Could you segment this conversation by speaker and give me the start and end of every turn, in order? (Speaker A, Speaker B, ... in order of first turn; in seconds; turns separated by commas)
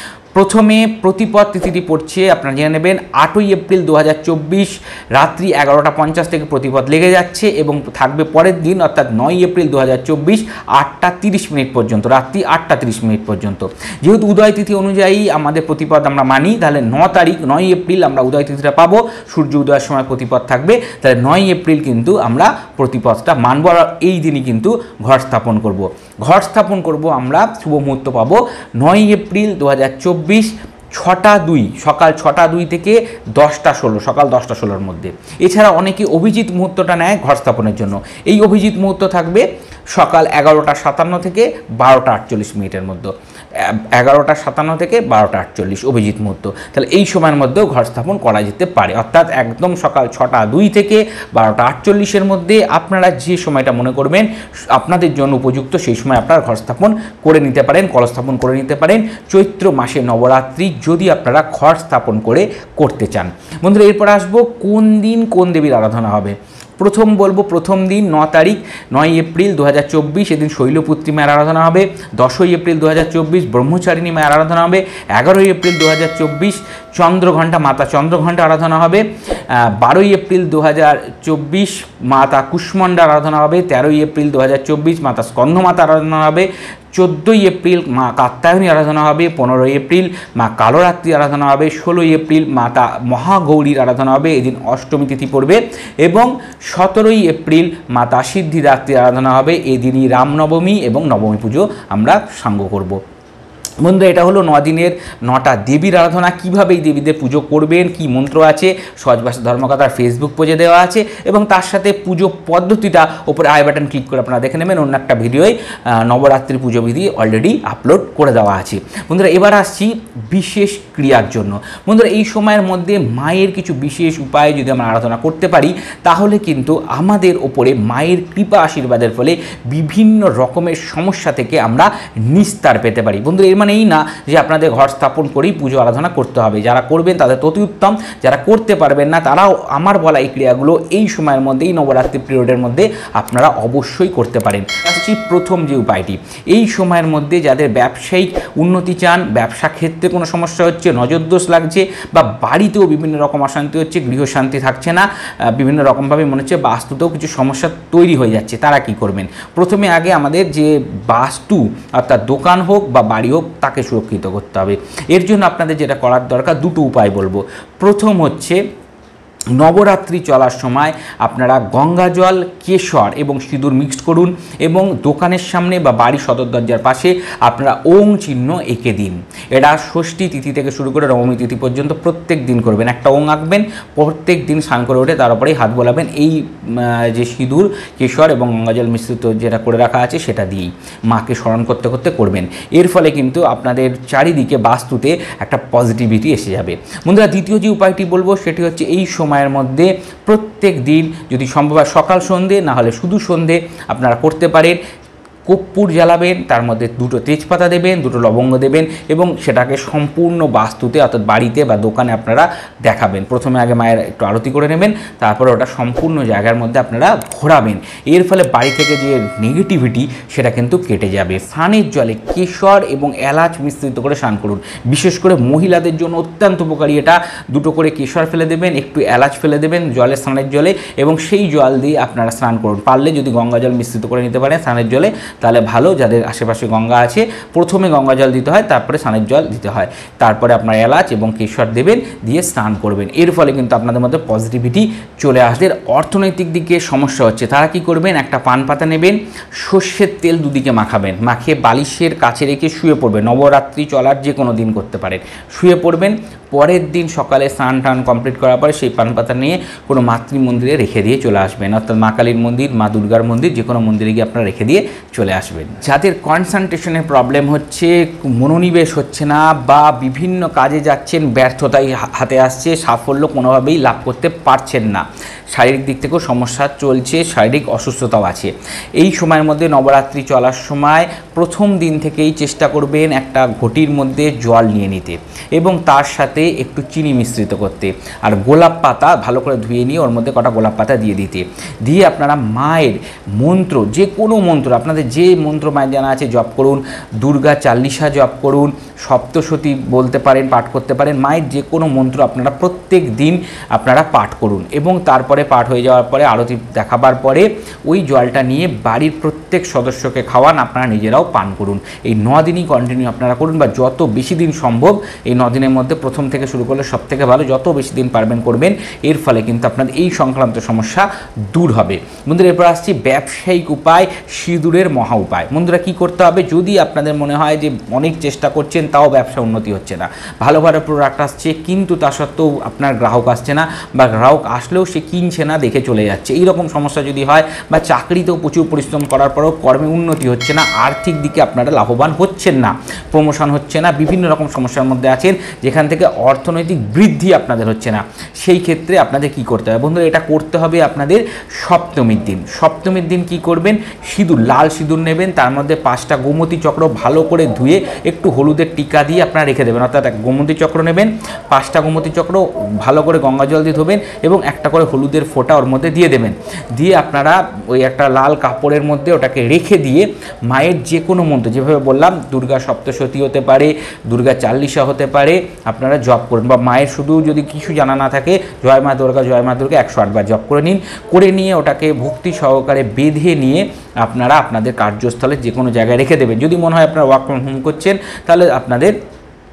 Speaker A: 0.3-103.0, Speaker A: 103.8-168.6, Speaker A: 169.6-204.8, Speaker A: 205.4-388.9